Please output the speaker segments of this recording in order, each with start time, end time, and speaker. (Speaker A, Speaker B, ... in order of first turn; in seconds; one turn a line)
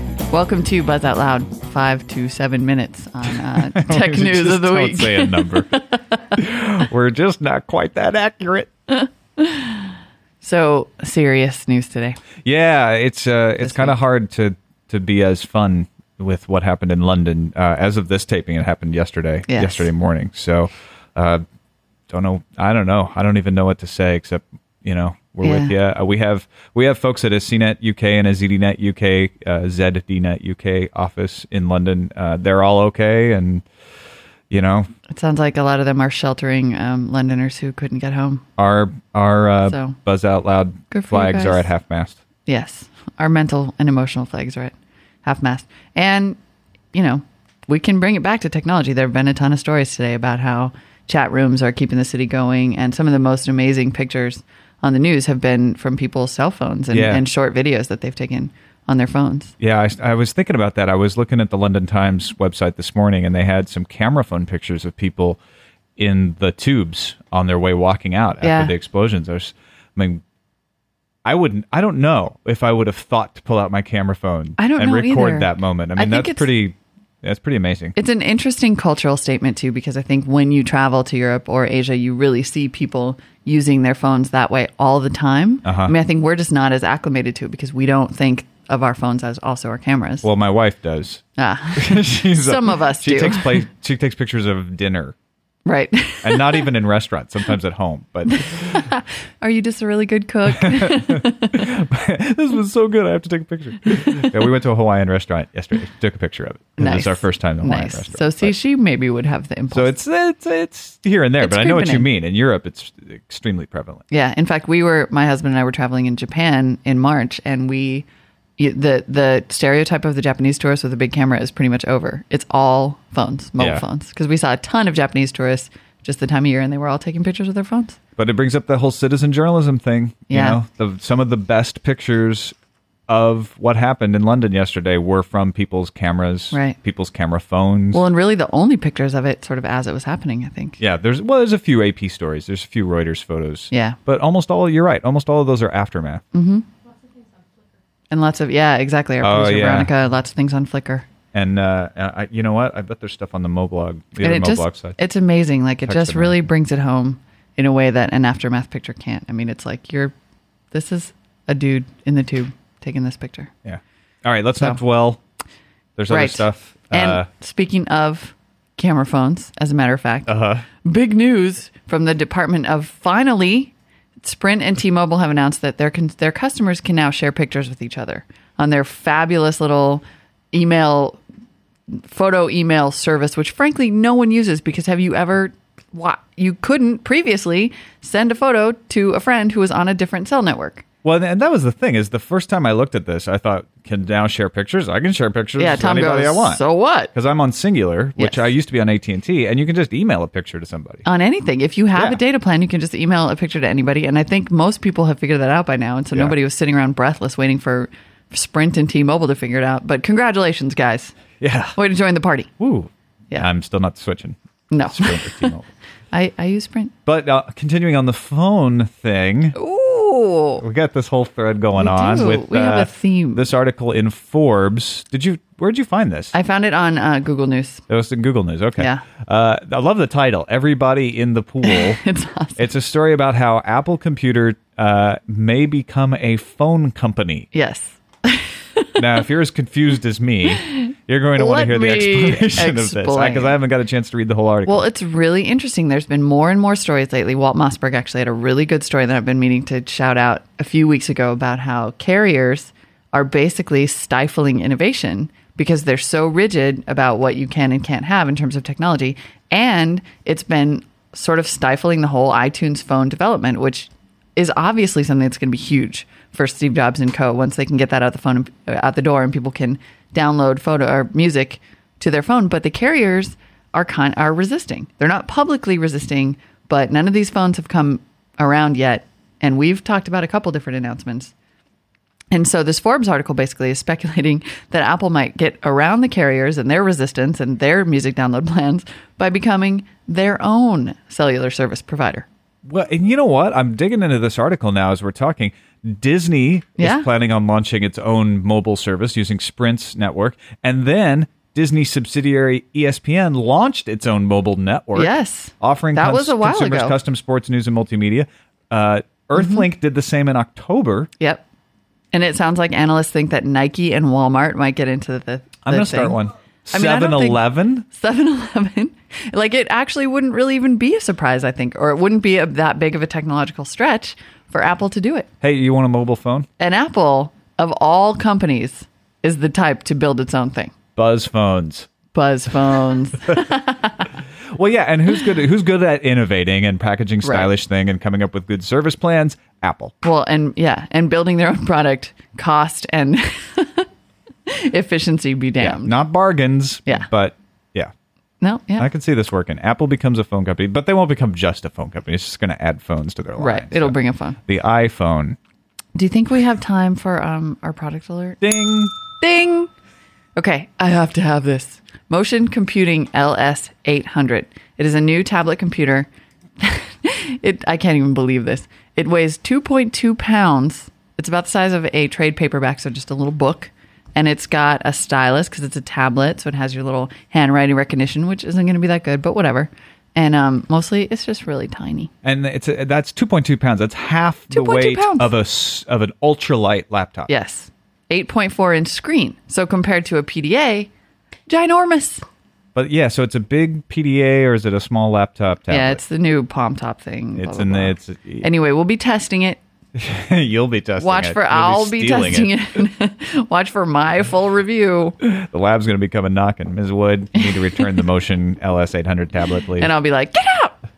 Speaker A: 0.3-6.2
Speaker B: 3.3-5.7
Speaker B: 6.3-8.7
Speaker A: 8.9-12.2
Speaker B: 12.4-21.4
Speaker A: 13.6-13.9
Speaker A: 19.5-19.9
Speaker B: 22.1-33.6
Speaker A: 25.4-25.7
Speaker B: 34.5-34.9
Speaker A: 35.1-38.4
Speaker B: 38.6-42.2
Speaker A: 39.7-40.0
Speaker A: 40.9-41.7
Speaker A: 42.5-46.4
Speaker A: 46.9-59.5
Speaker B: 56.9-57.2
Speaker B: 59.6-65.4
Speaker B: 66.0-70.2
Speaker A: 68.4-68.7
Speaker B: 71.2-77.9
Speaker A: 74.6-76.5
Speaker A: 78.0-90.2
Speaker B: 85.7-85.9
Speaker B: 90.2-95.2
Speaker A: 91.4-93.7
Speaker A: 95.7-96.7
Speaker B: 96.2-98.8
Speaker A: 98.3-101.7
Speaker B: 100.5-108.5
Speaker A: 106.8-109.9
Speaker B: 109.7-114.0
Speaker A: 111.4-112.1
Speaker A: 114.1-118.1
Speaker A: 118.6-128.0
Speaker B: 123.6-123.8
Speaker B: 128.2-132.6
Speaker A: 130.3-130.6
Speaker B: 133.1-138.0
Speaker A: 137.9-140.8
Speaker B: 140.8-146.2
Speaker A: 143.7-144.0
Speaker A: 146.3-146.7
Speaker A: 148.1-151.1
Speaker B: 149.2-149.9
Speaker B: 151.3-155.0
Speaker A: 154.2-160.1
Speaker B: 155.9-156.4
Speaker A: 160.7-163.5
Speaker B: 163.6-165.2
Speaker B: 166.0-167.3
Speaker A: 166.1-181.2
Speaker B: 170.3-170.7
Speaker A: 181.9-190.8
Speaker B: 191.0-196.6
Speaker A: 195.6-197.1
Speaker B: 197.1-201.1
Speaker A: 198.2-198.5
Speaker A: 201.1-211.2
Speaker B: 211.4-211.8
Speaker A: 211.8-212.5
Speaker B: 212.6-215.7
Speaker A: 214.7-215.5
Speaker A: 216.1-216.9
Speaker B: 217.1-219.6
Speaker A: 219.6-220.6
Speaker B: 220.6-226.3
Speaker A: 221.8-223.5
Speaker A: 226.3-227.8
Speaker B: 227.9-232.0
Speaker A: 228.8-229.1
Speaker A: 231.6-232.7
Speaker B: 232.6-237.5
Speaker A: 237.5-239.1
Speaker B: 239.0-244.8
Speaker A: 240.6-243.6
Speaker A: 244.7-281.3
Speaker A: 282.3-292.2
Speaker B: 292.6-311.1
Speaker A: 296.8-297.1
Speaker A: 304.9-306.9
Speaker A: 309.3-309.6
Speaker A: 311.2-311.4
Speaker A: 312.1-316.2
Speaker B: 315.6-317.8
Speaker A: 316.7-325.3
Speaker B: 325.4-326.5
Speaker A: 326.6-330.7
Speaker B: 330.9-331.9
Speaker A: 332.1-334.1
Speaker B: 334.5-339.9
Speaker A: 337.2-337.5
Speaker A: 340.0-343.9
Speaker A: 344.5-345.9
Speaker B: 345.6-347.9
Speaker A: 348.4-348.9
Speaker B: 348.8-353.9
Speaker A: 353.4-354.4
Speaker B: 354.5-355.4
Speaker A: 355.9-358.4
Speaker B: 358.4-358.9
Speaker A: 359.2-359.7
Speaker A: 360.4-366.1
Speaker A: 366.6-382.1
Speaker B: 382.2-387.3
Speaker A: 384.5-385.3
Speaker A: 387.3-390.9
Speaker A: 391.5-392.2
Speaker B: 392.8-396.0
Speaker A: 395.7-399.6
Speaker B: 397.4-398.5
Speaker B: 399.9-402.6
Speaker A: 401.0-405.2
Speaker B: 405.2-409.9
Speaker A: 407.4-407.9
Speaker A: 409.8-410.8